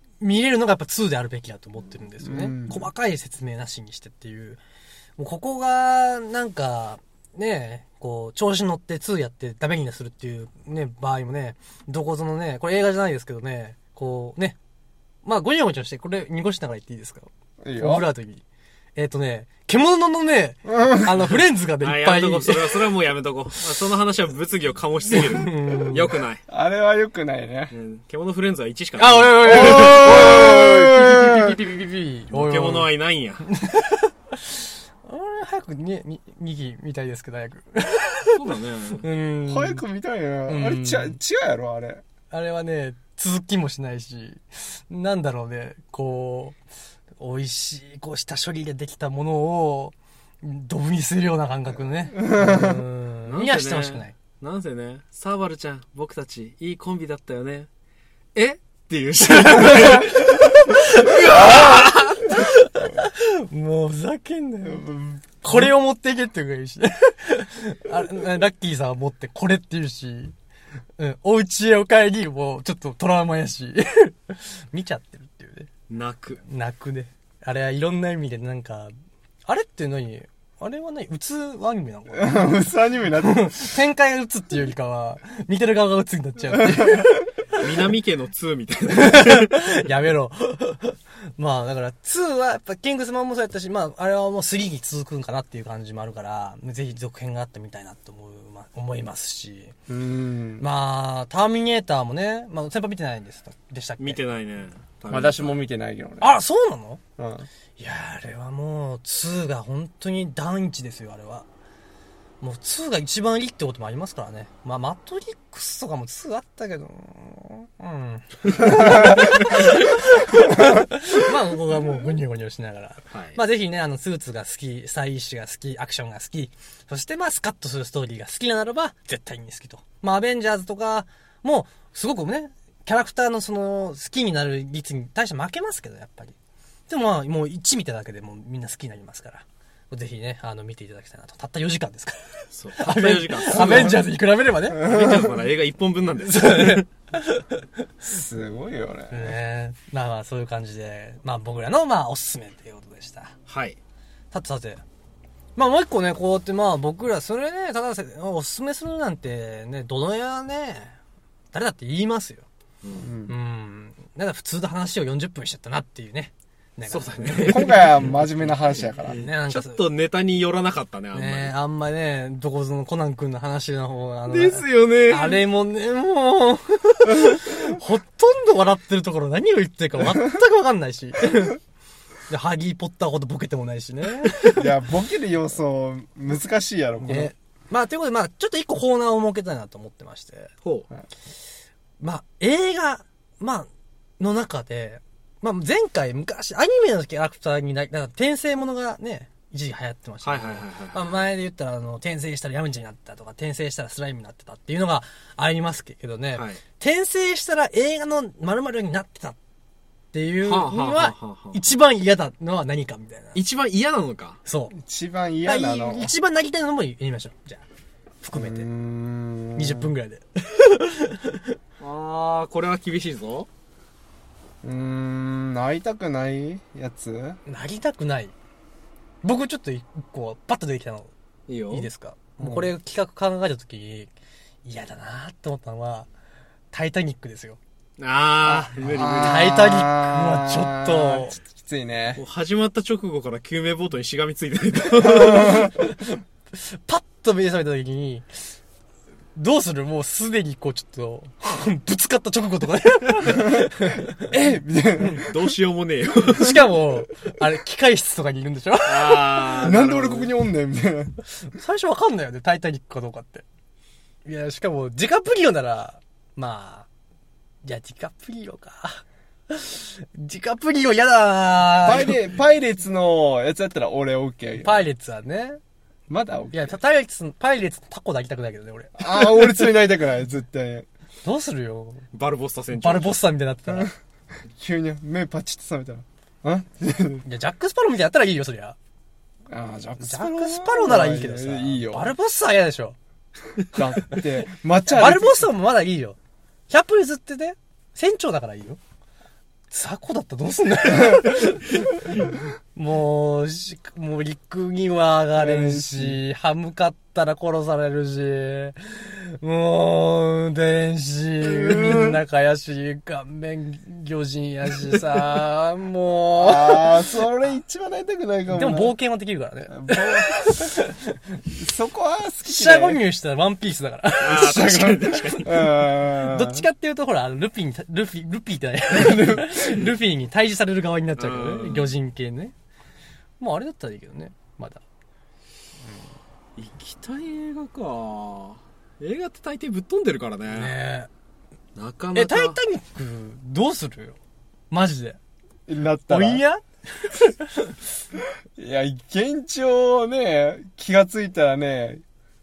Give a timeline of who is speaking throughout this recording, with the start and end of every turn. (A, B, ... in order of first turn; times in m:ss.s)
0:00.2-0:04.6 A
0:02.2-0:02.9 B
0:05.2-0:14.6 A
0:15.2-0:18.4 A
0:17.6-0:18.1 B
0:19.0-0:22.9 A
0:20.7-0:21.2 B
0:21.8-0:26.4 C
0:25.1-0:26.2 A
0:26.5-0:27.7 B
0:27.7-0:30.1 C
0:29.0-0:32.9 A
0:29.4-0:31.6 B
0:32.3-0:33.5 C
0:33.5-0:38.4 A
0:38.3-0:39.0 C
0:39.0-0:39.8 A
0:39.5-0:42.0 B
0:40.5-0:41.2 A
0:42.3-0:46.6 A
0:47.2-0:54.2 A
0:52.2-0:52.8 B
0:53.3-0:57.7 C
0:58.4-1:02.3 C
1:00.1-1:04.9 A
1:04.6-1:05.7 B
1:05.4-1:10.4 A
1:11.0-1:15.7 A
1:15.9-1:16.4 C
1:16.4-1:18.9 A
1:19.5-1:22.5 A
1:22.1-1:23.5 B
1:23.2-1:27.8 A
1:26.5-1:27.1 B
1:27.6-1:29.8 C
1:28.9-1:39.7 A
1:39.9-1:40.6 B
1:40.6-1:44.2 A
1:44.0-1:45.6 C
1:45.1-1:46.4 B
1:46.2-1:47.0 A
1:47.2-1:47.5 B
1:47.8-1:51.5 A
1:52.4-2:16.4 A
2:03.1-2:03.4 C
2:16.9-2:25.0 A
2:22.5-2:24.0 C
2:24.7-2:26.9 C
2:26.2-2:27.7 A
2:28.0-2:29.4 B
2:29.1-2:33.3 A
2:33.5-2:33.8 C
2:34.3-2:34.8 A
2:35.6-2:41.0 A
2:41.5-2:42.5 A
2:42.8-2:43.1 C
2:43.0-2:43.3 B
2:43.3-2:47.8 A
2:46.9-2:48.2 C
2:47.4-2:49.2 B
2:48.8-2:51.5 C
2:49.1-2:49.8 A
2:51.1-3:01.6 A
2:54.3-2:55.4 C
3:02.3-3:04.6 A
3:04.6-3:07.3 B
3:07.0-3:10.5 A
3:12.0-3:29.4 A
3:20.2-3:21.2 C
3:26.4-3:26.6 C
3:30.1-3:33.4 A
3:30.4-3:31.6 C
3:33.4-3:34.4 C
3:34.5-3:34.8 A
3:34.7-3:36.1 B
3:35.4-3:37.6 A
3:38.2-3:38.7 A
3:38.3-3:39.9 B
3:39.6-3:41.6 A
3:41.8-3:43.5 C
3:44.6-3:47.4 B
3:47.5-3:48.3 A
3:49.2-3:51.1 A
3:51.5-3:51.9 C
3:51.7-3:54.1 A
3:52.4-3:52.7 B
3:54.6-3:56.1 A
3:56.7-3:57.6 A
3:58.0-3:59.5 C
3:58.5-4:01.4 A
3:58.8-4:02.2 B
4:02.2-4:05.7 C
4:05.1-4:08.3 A
4:05.3-4:05.6 B
4:09.4-4:14.3 A
4:14.2-4:15.5 B
4:15.1-4:16.6 C
4:16.3-4:19.7 A
4:18.9-4:20.3 C
4:19.6-4:21.2 B
4:21.5-4:23.4 A
4:24.3-4:26.9 A
4:27.6-4:32.2 A
4:31.8-4:34.8 B
4:34.6-4:35.6 A
4:36.1-4:36.8 B
4:36.5-4:39.6 A
4:39.0-4:40.9 B
4:41.2-4:42.0 A
4:42.1-4:43.2 C
4:42.7-4:43.9 A
4:44.6-4:47.2 B
4:47.2-4:48.8 A
4:49.5-4:52.1 B
4:50.0-4:53.0 A
4:53.7-4:55.5 B
4:54.8-4:56.2 A
4:56.7-4:58.8 A
4:59.7-5:17.3 A
5:05.4-5:06.2 B
5:11.4-5:12.2 B
5:16.4-5:18.9 B
5:18.5-5:21.2 A
5:19.7-5:20.5 B
5:21.6-5:23.0 B
5:22.4-5:25.4 A
5:24.2-5:25.7 C
5:24.3-5:26.6 B
5:26.0-5:32.5 A
5:28.9-5:29.6 B
5:31.2-5:31.9 C
5:33.4-5:34.8 A
5:36.6-5:40.8 C
5:40.5-5:41.1 A
5:41.8-5:42.6 C
5:42.1-5:44.2 A
5:44.7-5:45.2 A
5:45.7-5:46.4 B
5:46.1-5:47.8 A
5:48.6-5:52.0 B